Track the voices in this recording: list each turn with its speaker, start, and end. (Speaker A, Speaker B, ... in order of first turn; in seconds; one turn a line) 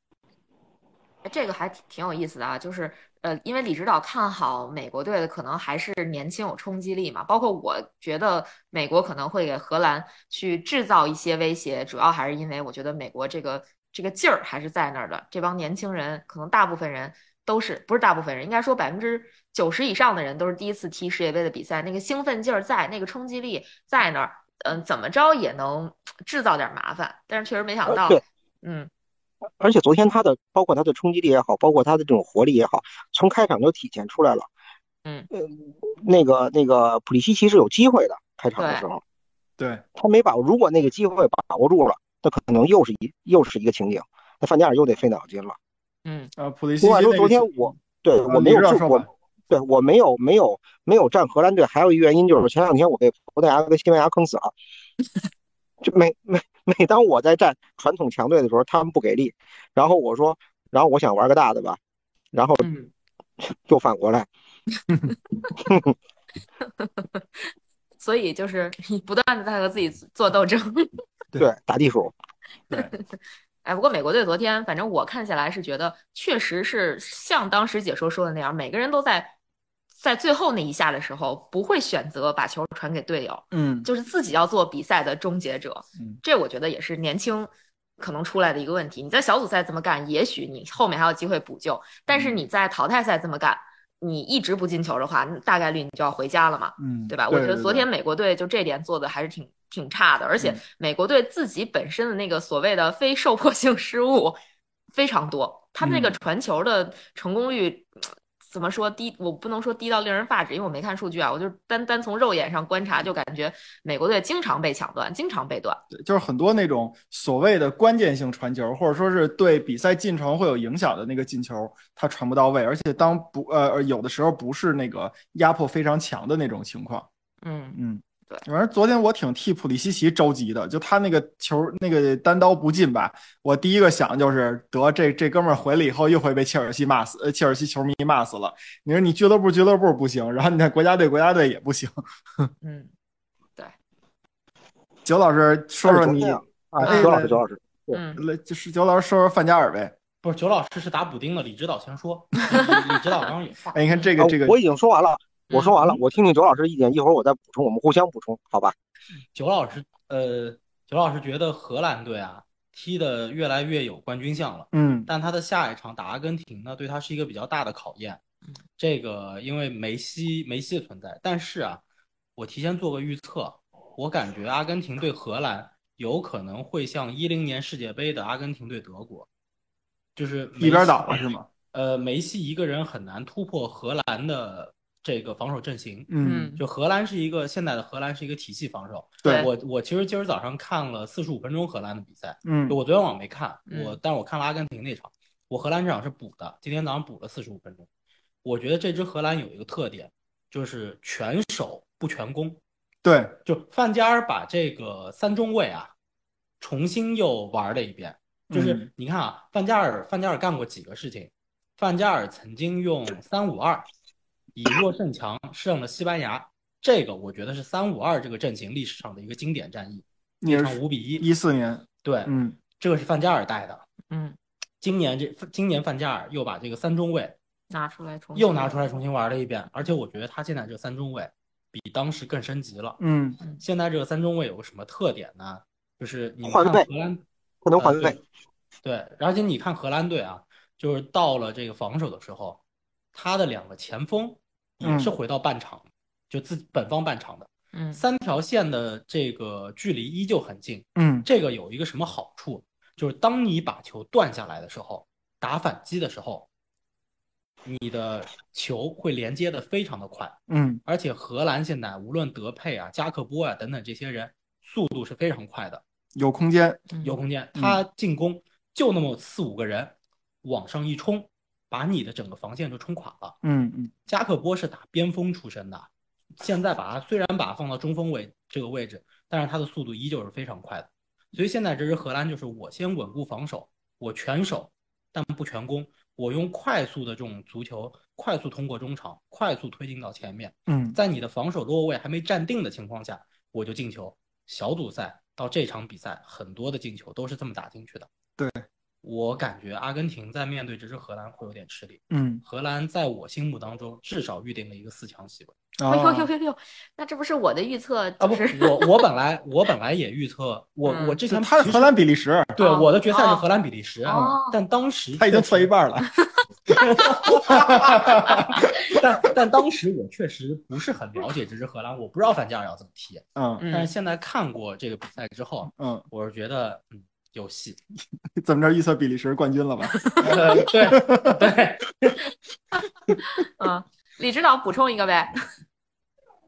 Speaker A: 1.2-28.9
Speaker B: 27.9-28.2
Speaker B: 29.6-34.5
Speaker B: 35.3-39.0
Speaker A: 38.6-38.9
Speaker C: 39.6-39.8
Speaker B: 40.0-45.6
Speaker A: 46.0-46.3
Speaker C: 46.4-49.1
Speaker B: 46.8-54.5
Speaker B: 55.8-61.8
Speaker B: 62.3-62.7
Speaker A: 62.6-62.9
Speaker B: 63.4-64.3
Speaker B: 65.6-65.9
Speaker A: 66.7-70.9
Speaker B: 71.4-72.1
Speaker A: 72.7-73.0
Speaker A: 73.6-79.3
Speaker A: 80.0-104.4
Speaker C: 83.5-83.9
Speaker C: 92.1-92.4
Speaker C: 96.8-97.9
Speaker A: 104.9-115.8
Speaker C: 105.8-106.1
Speaker C: 115.9-127.1
Speaker A: 127.4-128.5
Speaker C: 127.8-142.5
Speaker A: 142.6-142.9
Speaker C: 145.1-147.4
Speaker B: 145.8-148.0
Speaker A: 146.8-147.2
Speaker A: 147.9-148.2
Speaker C: 148.2-149.9
Speaker D: 150.2-153.8
Speaker C: 153.7-154.6
Speaker B: 154.2-158.8
Speaker A: 155.5-156.0
Speaker D: 159.3-168.2
Speaker C: 164.7-165.1
Speaker D: 168.8-171.8
Speaker D: 172.4-179.3
Speaker D: 180.2-181.2
Speaker C: 180.6-181.5
Speaker D: 181.7-197.9
Speaker C: 186.1-186.6
Speaker A: 186.2-186.6
Speaker C: 192.4-192.8
Speaker A: 193.7-194.0
Speaker D: 198.4-202.6
Speaker C: 203.0-203.3
Speaker D: 203.5-205.9
Speaker D: 206.6-213.9
Speaker C: 208.5-208.9
Speaker D: 214.6-221.2
Speaker C: 220.4-222.6
Speaker D: 222.0-223.8
Speaker A: 224.1-224.4
Speaker D: 224.8-227.3
Speaker A: 227.7-228.8
Speaker D: 228.3-233.0
Speaker C: 233.0-233.4
Speaker D: 233.6-237.2
Speaker B: 236.4-236.9
Speaker B: 237.6-238.2
Speaker D: 237.8-238.2
Speaker D: 238.8-242.6
Speaker D: 243.1-256.5
Speaker C: 244.8-245.1
Speaker A: 247.7-248.0
Speaker C: 251.0-251.3
Speaker D: 257.6-265.8
Speaker C: 260.5-260.8
Speaker C: 266.2-266.9
Speaker A: 266.9-267.2
Speaker D: 267.0-273.4
Speaker C: 273.4-273.9
Speaker D: 274.1-275.9
Speaker D: 276.4-298.1
Speaker C: 290.7-291.0
Speaker C: 298.4-298.6
Speaker D: 299.0-305.6
Speaker C: 302.1-302.4
Speaker C: 305.8-306.3
Speaker A: 305.9-308.9
Speaker D: 308.2-311.9
Speaker A: 310.9-311.2
Speaker C: 311.3-312.6
Speaker D: 312.6-315.7
Speaker A: 312.6-313.4
Speaker A: 314.0-314.6
Speaker C: 315.2-316.1
Speaker D: 316.8-327.8
Speaker C: 316.9-318.6
Speaker C: 323.4-323.6
Speaker A: 323.6-323.9
Speaker C: 325.8-326.1
Speaker C: 328.4-331.5
Speaker A: 329.9-330.3
Speaker D: 330.2-332.2
Speaker A: 333.1-335.3